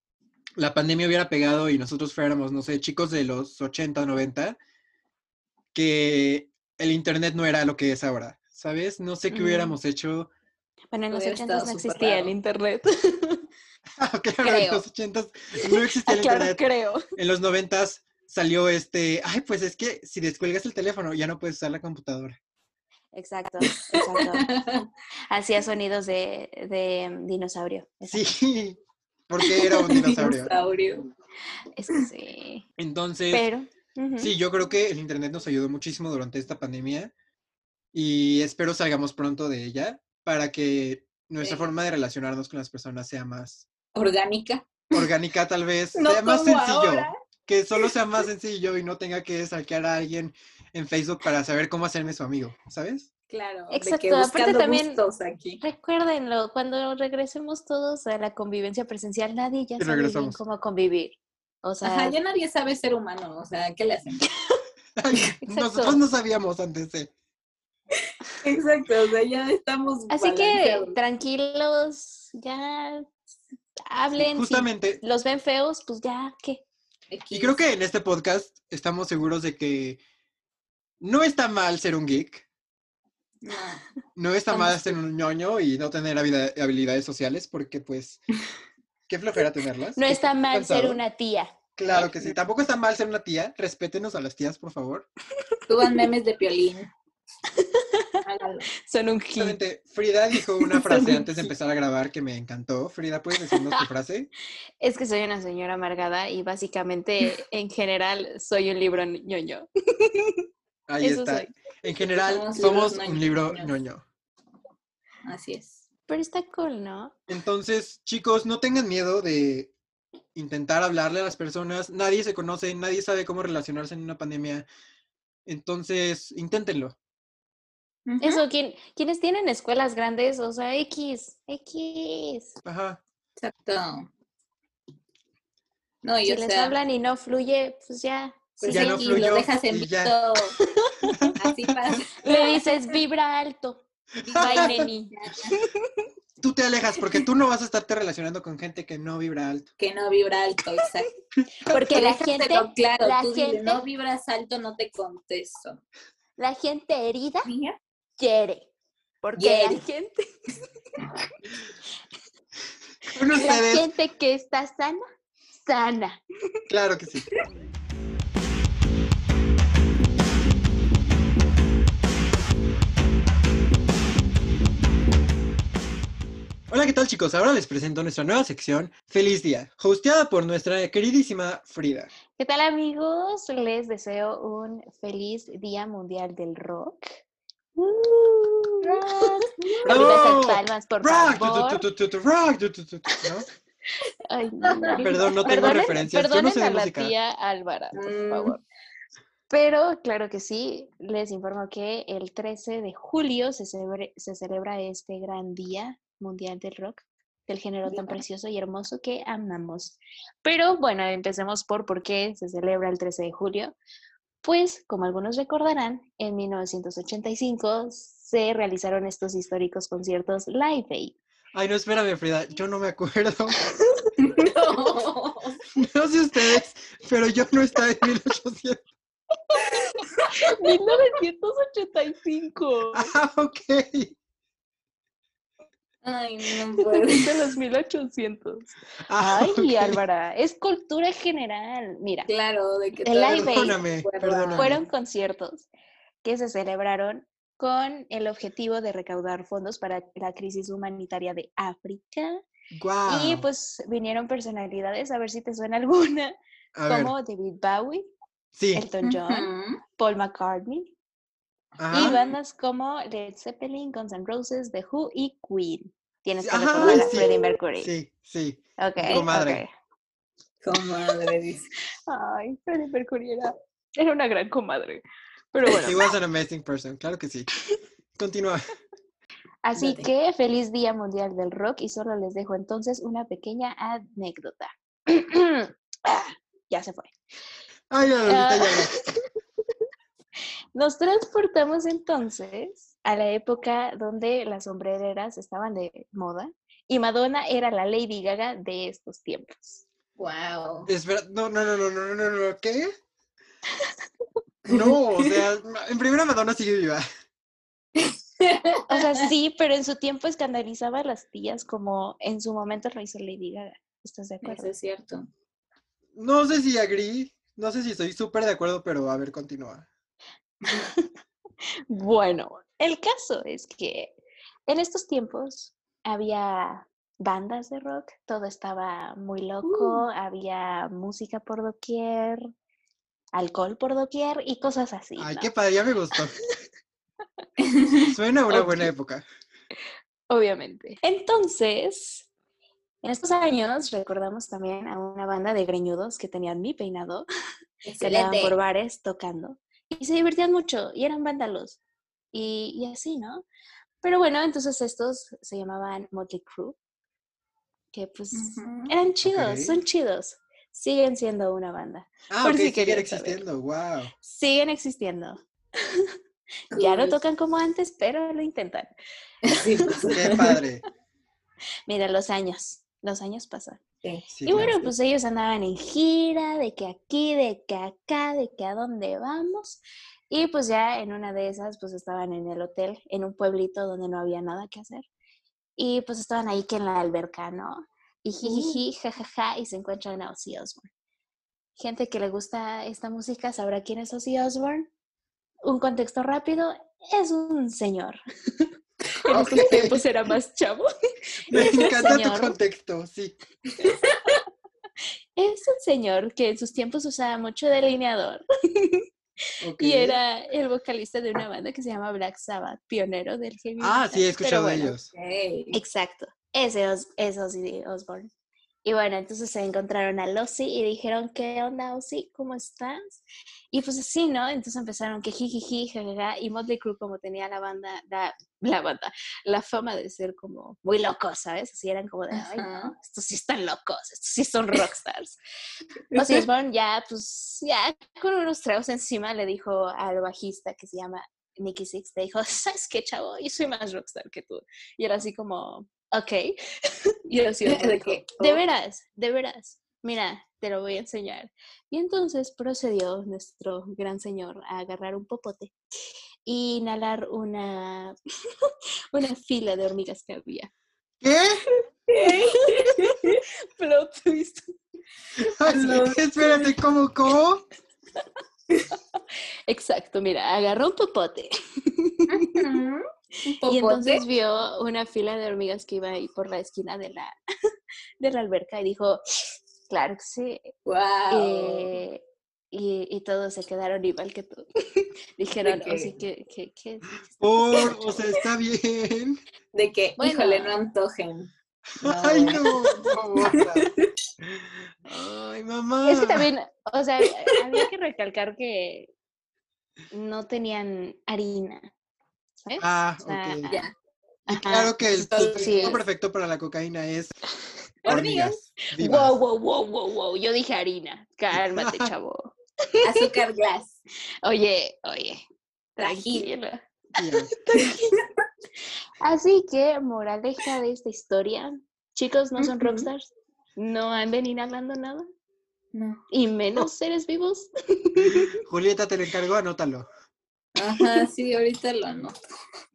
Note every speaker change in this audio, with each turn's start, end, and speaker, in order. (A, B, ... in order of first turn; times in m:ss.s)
0:00.6-0:04.6 A
0:05.7-0:10.3 A
0:09.3-0:09.8 B
0:10.9-0:13.4 B
0:11.1-0:12.3 C
0:14.0-0:16.6 A
0:14.4-0:14.8 B
0:15.6-0:17.0 B
0:17.2-0:22.4 A
0:23.1-0:24.5 B
0:23.7-0:24.9 C
0:25.3-0:28.3 B
0:28.1-0:30.5 A
0:29.9-0:31.1 C
0:31.8-0:32.6 B
0:32.8-0:33.4 A
0:33.3-0:34.3 B
0:34.2-0:37.1 A
0:37.9-0:43.6 A
0:41.4-0:41.7 C
0:43.9-0:45.1 C
0:44.9-0:53.1 A
0:46.0-0:47.1 C
0:53.3-0:55.6 C
0:53.7-0:55.0 B
0:55.6-1:02.1 B
0:59.8-1:00.4 A
1:01.8-1:04.2 C
1:05.0-1:07.1 A
1:05.4-1:06.0 B
1:08.4-1:11.0 C
1:10.1-1:13.3 B
1:13.8-1:16.6 B
1:14.1-1:15.0 A
1:17.1-1:17.6 C
1:17.3-1:20.0 A
1:21.0-1:22.4 A
1:23.4-1:23.8 C
1:24.2-1:28.2 A
1:24.5-1:24.9 C
1:29.1-1:31.0 A
1:30.0-1:31.5 B
1:31.8-1:35.1 A
1:31.9-1:32.3 C
1:35.7-1:36.9 C
1:35.8-1:36.1 B
1:37.5-1:38.2 B
1:38.2-1:38.7 C
1:38.8-1:39.6 B
1:39.4-1:44.3 A
1:40.6-1:41.2 B
1:43.5-1:43.8 B
1:44.8-1:50.4 B
1:50.9-1:54.0 A
1:51.0-1:51.5 B
1:52.2-1:53.7 C
1:55.2-1:55.8 C
1:56.1-1:57.1 B
1:57.3-1:59.7 A
2:00.3-2:04.6 A
2:05.4-2:07.0 A
2:08.0-2:08.4 C
2:08.2-2:12.6 B
2:12.6-2:13.0 A
2:13.4-2:14.1 C
2:16.0-2:16.7 C
2:16.2-2:19.3 B
2:18.6-2:20.6 C
2:18.7-2:20.1 A
2:20.6-2:21.3 B
2:21.4-2:23.0 C
2:22.2-2:23.8 B
2:24.2-2:25.6 C
2:24.3-2:24.7 A
2:24.4-2:26.0 B
2:26.4-2:29.7 A
2:29.8-2:31.1 C
2:31.6-2:33.8 B
2:31.7-2:35.8 C
2:36.4-2:37.5 B
2:37.4-2:37.8 C
2:38.2-2:38.7 B
2:39.2-2:40.3 B
2:39.4-2:39.8 C
2:43.1-2:43.9 A
2:43.3-2:45.0 B
2:45.6-2:46.2 B
2:46.7-2:47.3 A
2:56.7-3:02.1 A
3:02.4-3:07.2 B
3:07.8-3:11.8 B
3:08.8-3:10.2 C
3:09.8-3:13.5 A
3:14.3-3:18.6 B
3:14.6-3:15.8 C
3:15.0-3:17.1 A
3:17.9-3:18.6 C
3:19.5-3:33.8 B
3:27.9-3:28.2 C
3:34.4-3:41.1 B
3:41.5-3:43.6 A
3:44.2-3:45.6 C
3:45.7-3:48.8 A
3:49.5-3:53.1 B
3:50.0-3:50.9 C
3:52.9-3:54.2 A
3:56.0-3:57.5 C
3:56.8-4:02.3 B
3:59.1-4:00.0 A
4:02.3-4:04.8 C
4:03.0-4:03.8 B
4:03.3-4:04.8 A
4:04.6-4:05.7 B
4:06.2-4:12.4 B
4:12.7-4:13.4 A
4:13.1-4:16.3 B
4:16.7-4:17.1 A
4:16.9-4:18.1 B
4:18.5-4:18.8 A
4:18.7-4:20.9 B
4:19.0-4:19.8 C
4:21.8-4:22.2 A
4:21.9-4:27.9 B
4:26.4-4:29.6 A
4:26.8-4:27.5 C
4:28.8-4:29.7 B
4:30.6-4:31.7 C
4:32.1-4:35.0 B
4:35.5-4:36.1 B
4:35.7-4:37.5 A
4:38.2-4:38.6 A
4:39.6-4:47.1 B
4:39.8-4:40.1 C
4:47.9-4:48.9 A
4:48.3-4:49.0 B
4:50.7-4:59.8 B
5:00.2-5:00.9 C
5:00.8-5:02.9 A
5:04.6-5:07.0 A
5:04.7-5:05.4 C
5:08.0-5:09.3 C
5:08.9-5:14.7 B
5:14.4-5:15.3 C
5:16.2-5:19.9 A
5:20.7-5:21.1 B
5:21.9-5:24.1 B
5:24.7-5:32.4 B
5:29.6-5:30.0 C
5:33.3-5:35.5 B
5:35.2-5:36.4 A
5:37.6-5:38.1 C
5:38.0-5:39.2 A
5:38.5-5:38.9 B
5:40.3-5:42.3 B
5:43.0-5:47.2 B
5:47.8-5:48.6 C
5:48.0-5:51.8 B
5:52.3-5:53.4 B
5:54.0-5:56.8 B
5:57.9-6:03.4 B
5:58.3-5:58.9 C
5:59.2-5:59.8 A
6:02.3-6:04.1 A
6:04.2-6:06.1 B
6:06.7-6:08.9 B
6:06.7-6:07.2 C
6:09.4-6:10.6 C
6:09.5-6:10.4 B
6:10.1-6:10.8 A
6:11.9-6:13.8 B
6:14.3-6:14.9 A
6:14.4-6:25.0 B
6:25.8-6:30.9 B
6:28.4-6:28.8 C
6:31.8-6:34.9 B
6:35.6-6:38.7 B
6:39.2-6:40.9 B
6:39.3-6:40.0 A
6:41.4-6:42.6 B
6:41.5-6:43.4 A
6:43.8-6:44.4 C
6:45.4-6:49.0 B
6:49.6-6:50.2 A
6:49.8-6:54.9 B
6:53.8-6:55.1 A
6:55.1-6:55.8 C
6:55.7-6:58.3 B
6:58.8-7:15.4 B
7:12.3-7:12.9 C
7:16.1-7:26.6 B
7:16.1-7:16.4 C
7:27.3-7:35.7 B
7:27.6-7:28.6 C
7:36.4-7:38.1 B
7:38.7-7:40.7 B
7:41.2-7:41.6 A
7:42.1-7:43.4 C
7:42.1-7:44.6 B
7:45.4-7:47.6 A
7:45.6-7:46.4 C
7:49.7-7:52.6 B
7:52.3-7:54.2 C
7:53.6-7:57.3 B
7:58.2-8:00.7 B
8:00.8-8:02.0 C
8:01.3-8:07.2 B
8:05.6-8:06.1 C
8:07.3-8:09.4 A
8:07.8-8:08.4 C
8:09.7-8:14.1 C
8:10.2-8:10.8 B
8:12.0-8:13.9 A
8:14.4-8:16.5 A
8:16.0-8:19.1 B
8:17.5-8:17.8 C
8:20.1-8:21.9 B
8:22.6-8:23.9 B
8:22.8-8:23.7 A
8:24.5-8:26.0 B
8:24.5-8:27.4 A
8:25.0-8:26.0 C
8:28.0-8:28.6 C
8:28.0-8:29.3 A
8:29.0-8:33.2 B
8:31.5-8:32.1 A
8:33.0-8:34.0 C
8:34.4-8:35.4 B
8:36.0-8:36.8 B
8:36.0-8:36.5 C
8:37.2-8:37.5 A
8:37.3-8:38.1 B
8:37.7-8:38.2 C
8:39.2-8:45.3 B
8:42.6-8:43.1 C
8:45.9-8:46.2 C
8:46.3-8:48.5 B
8:48.2-8:50.1 A
8:50.8-8:52.4 C